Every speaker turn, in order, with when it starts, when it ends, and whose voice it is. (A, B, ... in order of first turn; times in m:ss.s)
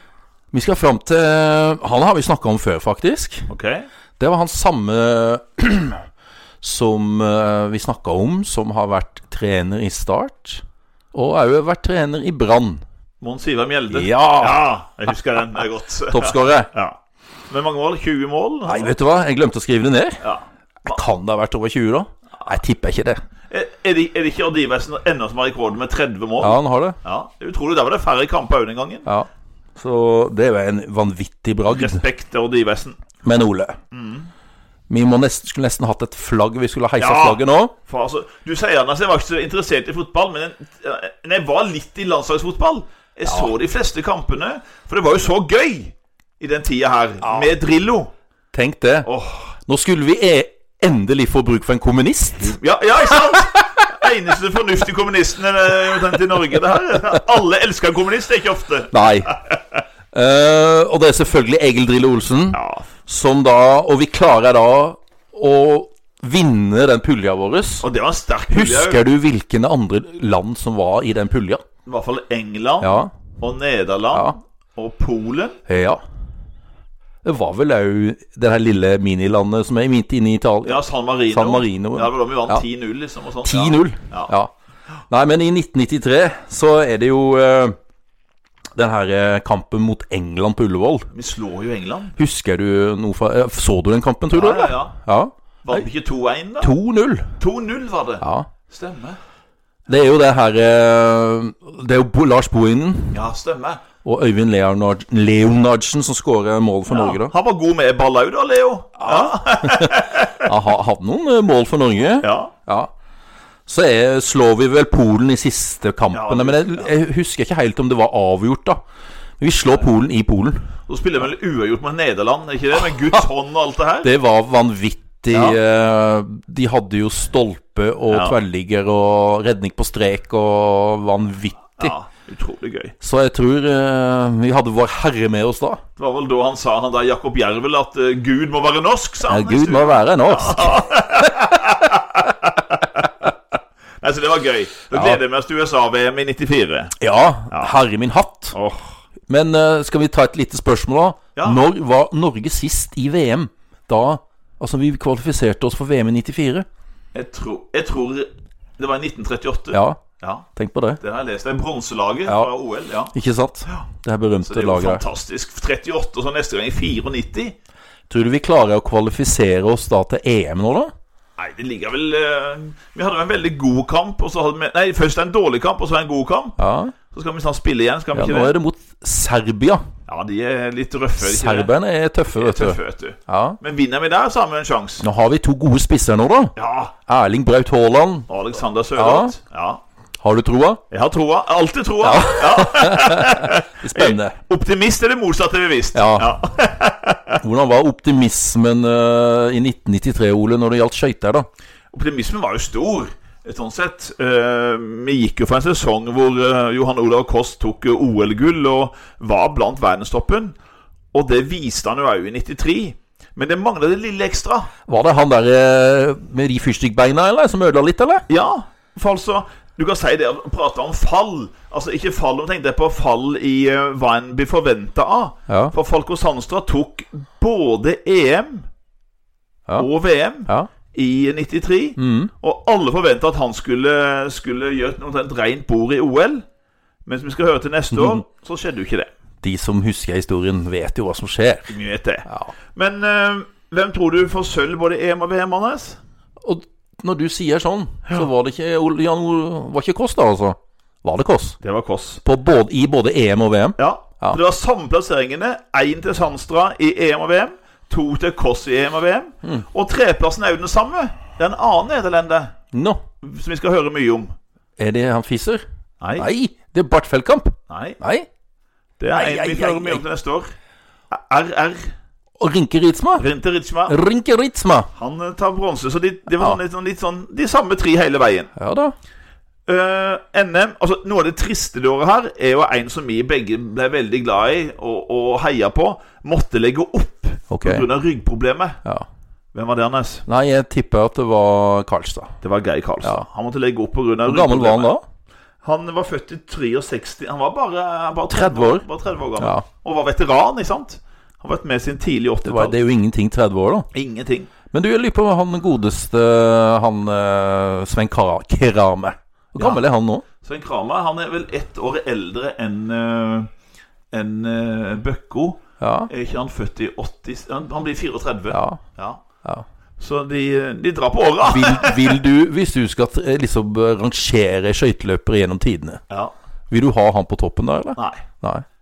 0:00.5-0:03.5 A
0:03.5-0:03.9 B
0:04.2-0:06.0 A
0:06.6-0:12.8 A
0:13.2-0:17.0 B
0:13.9-0:14.7 A
0:16.1-0:16.7 A
0:17.5-0:18.9 B
0:18.7-0:20.2 A
0:20.2-0:21.0 B
0:20.8-0:23.2 A
0:23.5-0:29.1 B
0:26.4-0:27.0 A
0:29.1-0:32.0 A
0:31.7-0:33.0 B
0:33.2-0:33.8 A
0:33.9-0:34.3 B
0:34.9-0:37.8 A
0:37.0-0:48.1 B
0:48.5-0:49.1 A
0:49.1-0:49.5 B
0:49.7-0:52.6 A
0:52.4-0:59.6 B
0:58.9-0:59.4 A
1:00.1-1:07.9 A
1:02.5-1:02.9 B
1:07.8-1:09.0 B
1:08.5-1:11.6 A
1:11.9-1:15.6 B
1:12.8-1:13.1 A
1:14.1-1:14.4 A
1:15.7-1:16.0 A
1:17.2-1:22.6 A
1:20.6-1:24.3 B
1:23.4-1:24.5 A
1:25.1-1:27.8 A
1:28.8-1:31.1 A
1:31.1-1:32.2 B
1:32.2-1:35.8 A
1:34.3-1:35.0 B
1:35.6-1:36.7 B
1:36.6-1:37.4 A
1:37.4-1:39.2 B
1:38.2-1:38.5 A
1:39.9-1:43.2 A
1:43.1-1:43.8 B
1:44.0-1:47.3 A
1:46.9-1:50.5 B
1:49.0-1:52.9 A
1:52.2-1:52.5 B
1:53.7-1:58.8 A
1:56.1-1:56.9 B
1:59.4-2:00.7 A
2:00.9-2:04.1 B
2:04.0-2:11.9 A
2:05.3-2:05.6 B
2:08.1-2:08.4 B
2:11.8-2:13.0 B
2:13.0-2:15.8 A
2:16.0-2:23.3 B
2:19.3-2:21.8 A
2:24.0-2:26.9 B
2:24.9-2:25.2 A
2:27.0-2:28.6 A
2:27.5-2:27.8 B
2:28.5-2:28.9 B
2:29.3-2:36.7 A
2:31.4-2:31.6 B
2:37.1-2:40.5 B
2:39.7-2:40.0 A
2:40.6-2:41.0 A
2:41.0-2:43.1 B
2:42.3-2:42.5 A
2:43.1-2:45.0 A
2:44.4-2:47.6 B
2:48.1-2:50.9 A
2:51.4-2:56.6 B
2:56.6-2:56.9 A
2:57.1-2:58.6 B
2:58.1-2:59.8 A
3:00.1-3:01.7 B
3:01.2-3:03.6 A
3:02.3-3:05.0 B
3:05.0-3:08.3 A
3:06.6-3:06.9 B
3:08.3-3:09.8 B
3:09.0-3:09.4 A
3:10.2-3:10.8 A
3:10.9-3:17.4 B
3:12.0-3:14.4 A
3:16.0-3:16.4 A
3:17.4-3:21.5 A
3:21.9-3:30.6 B
3:31.1-3:34.7 B
3:34.9-3:38.3 A
3:38.3-3:48.7 B
3:45.5-3:45.8 A
3:49.8-3:56.4 B
3:52.0-3:52.3 A
3:57.0-3:59.1 B
3:57.9-3:58.2 A
3:59.4-4:02.5 A
4:01.7-4:06.0 B
4:06.4-4:11.6 A
4:11.6-4:12.2 B
4:12.2-4:14.4 A
4:13.8-4:22.5 B
4:22.7-4:23.0 A
4:23.2-4:24.4 B
4:24.8-4:25.6 A
4:26.0-4:26.3 B
4:26.2-4:28.3 A
4:27.7-4:28.0 B
4:29.0-4:30.5 B
4:29.1-4:30.0 A
4:31.1-4:31.9 B
4:32.4-4:33.3 A
4:33.2-4:34.0 B
4:33.9-4:34.9 A
4:35.0-4:38.5 B
4:38.6-4:39.0 A
4:39.7-4:48.8 B
4:47.5-4:47.9 A
4:49.5-4:50.2 B
4:50.3-4:52.3 A
4:52.4-4:54.9 B
4:54.3-4:55.0 A
4:55.6-5:02.8 B
4:58.3-4:58.8 A
4:59.4-4:59.7 A
5:02.4-5:03.9 A
5:03.9-5:04.5 B
5:04.7-5:10.3 A
5:09.6-5:09.8 B
5:10.4-5:13.5 B
5:14.1-5:19.2 B
5:15.8-5:16.1 A
5:18.5-5:18.8 A
5:20.0-5:22.2 B
5:21.4-5:26.0 A
5:26.7-5:28.6 A
5:28.0-5:28.2 B